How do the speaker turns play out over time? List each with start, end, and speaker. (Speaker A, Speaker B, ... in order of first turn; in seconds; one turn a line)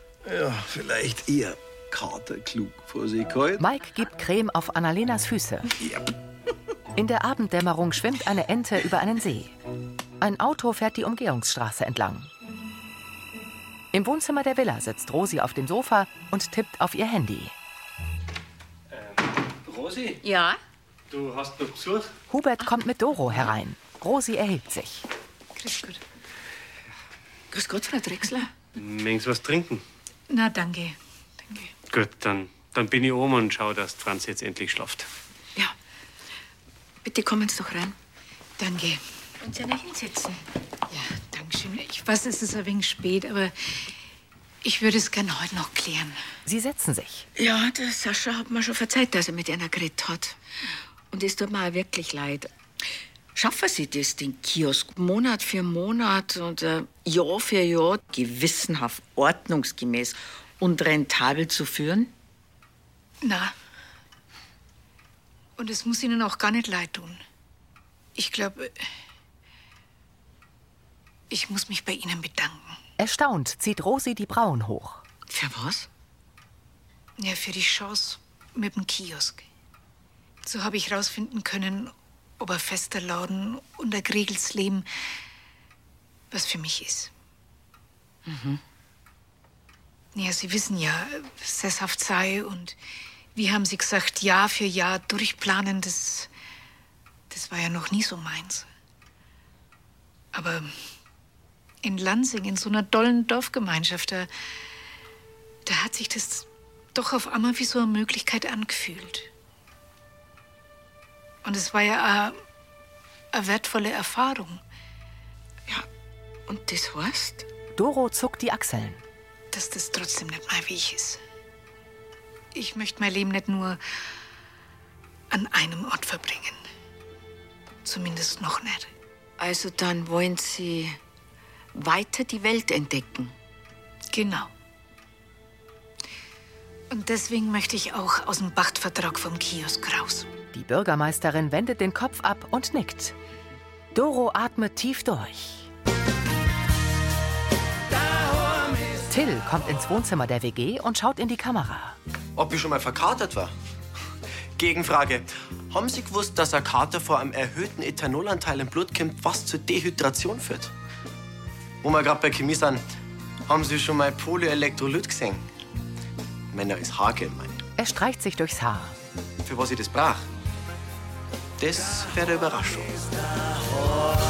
Speaker A: 0.2-3.6
Speaker B: 3.6-5.7
Speaker B: 7.0-9.5
Speaker B: 10.2-12.3
Speaker B: 13.9-17.5
Speaker C: 19.0-20.2
Speaker C: 21.1-22.1
Speaker B: 22.3-25.0
Speaker D: 25.6-26.0
Speaker E: 27.5-28.5
Speaker C: 28.8-29.8
Speaker D: 30.3-30.9
Speaker D: 31.5-31.7
Speaker C: 31.9-35.1
Speaker E: 37.0-38.0
Speaker D: 38.6-39.0
Speaker E: 39.4-40.4
Speaker D: 40.9-43.9
Speaker D: 44.6-46.2
Speaker B: 46.5-47.3
Speaker E: 47.4-50.4
Speaker E: 51.1-52.5
Speaker E: 53.4-62.1
Speaker D: 63.2-63.5
Speaker D: 65.6-67.2
Speaker D: 68.1-68.8
Speaker D: 71.3-72.8
Speaker B: 73.0-75.0
Speaker E: 75.3-75.9
Speaker D: 77.2-79.5
Speaker D: 80.4-84.9
Speaker D: 86.3-87.1
Speaker E: 88.2-88.6
Speaker D: 90.1-92.8
Speaker D: 93.3-96.3
Speaker D: 97.3-98.7
Speaker D: 100.3-100.7
Speaker D: 101.8-104.3
Speaker D: 105.6-109.3
Speaker D: 111.4-112.4
Speaker D: 113.3-114.6
Speaker E: 116.5-117.4
Speaker B: 117.8-119.0
Speaker D: 119.5-121.2
Speaker D: 122.5-123.8
Speaker D: 125.3-126.6
Speaker D: 127.8-128.9
Speaker E: 129.4-131.0
Speaker E: 131.7-133.3
Speaker D: 134.1-134.5
Speaker D: 136.9-140.3
Speaker B: 140.5-143.2
Speaker B: 143.9-145.7
Speaker B: 149.1-151.9
Speaker F: 152.3-153.5
Speaker F: 154.6-160.7
Speaker F: 161.8-162.8
Speaker F: 163.4-165.4
Speaker F: 166.5-167.6
Speaker B: 167.8-168.9
Speaker F: 169.4-170.2
Speaker F: 171.6-173.1